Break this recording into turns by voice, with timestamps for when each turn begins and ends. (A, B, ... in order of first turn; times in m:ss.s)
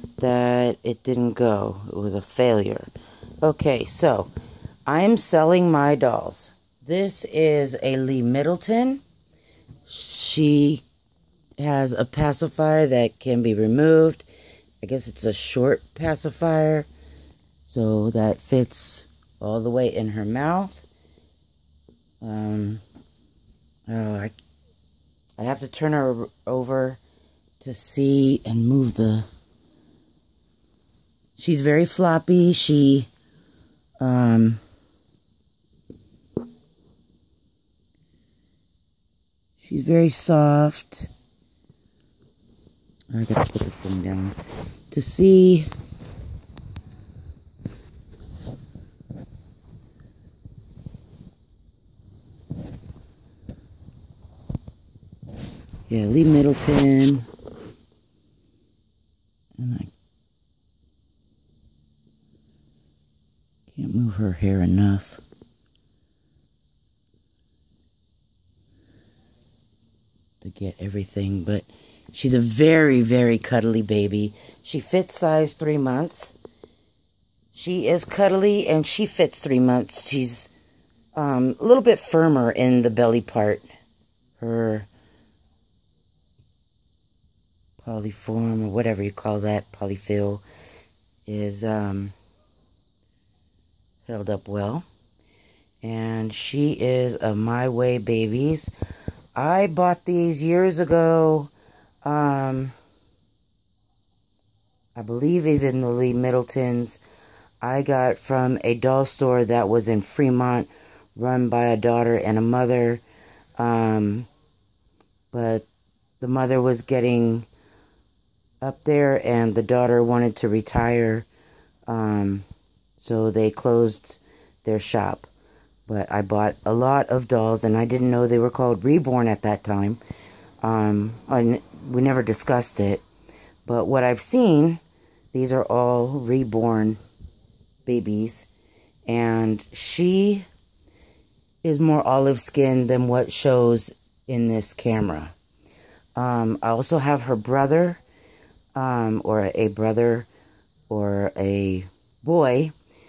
0:00.2-0:02.9 A
0:03.4-0:04.3 A
0:04.9-0:09.0 A
0:09.8-0:10.8 A
0:11.6-0:14.3 A
0:14.8-0:16.9 A
0:17.6-0:20.8 A
0:22.2-0:22.8 A
0:23.9-0:24.3 A
0:25.4-0:27.0 A
0:27.6-0:29.2 A
0:31.4-0:33.1 A
0:34.0-0:34.6 A
0:39.6-0:41.1 A
0:43.1-0:44.4 A
0:44.9-0:45.7 A
0:55.9-0:57.3 A
0:59.6-0:59.9 A
1:03.7-1:05.2 A
1:10.4-1:16.4 A
1:17.5-1:20.5 A
1:21.1-1:23.6 A
1:24.4-1:24.9 A
1:27.8-1:30.4 A
1:31.2-1:32.1 A
1:34.0-1:34.8 A
1:35.8-1:38.7 A
1:39.4-1:41.5 A
1:42.0-1:42.7 A
1:45.0-1:47.0 A
1:47.6-1:53.0 A
1:53.6-1:54.3 A
1:55.3-1:55.6 A
1:56.2-1:57.5 A
1:58.6-2:01.3 A
2:01.9-2:02.4 A
2:03.0-2:05.3 A
2:05.9-2:10.0 A
2:10.6-2:13.0 A
2:13.6-2:14.8 A
2:15.3-2:17.0 A
2:17.8-2:18.5 A
2:19.1-2:20.5 A
2:21.6-2:25.3 A
2:26.2-2:28.0 A
2:28.7-2:30.3 A
2:30.9-2:32.7 A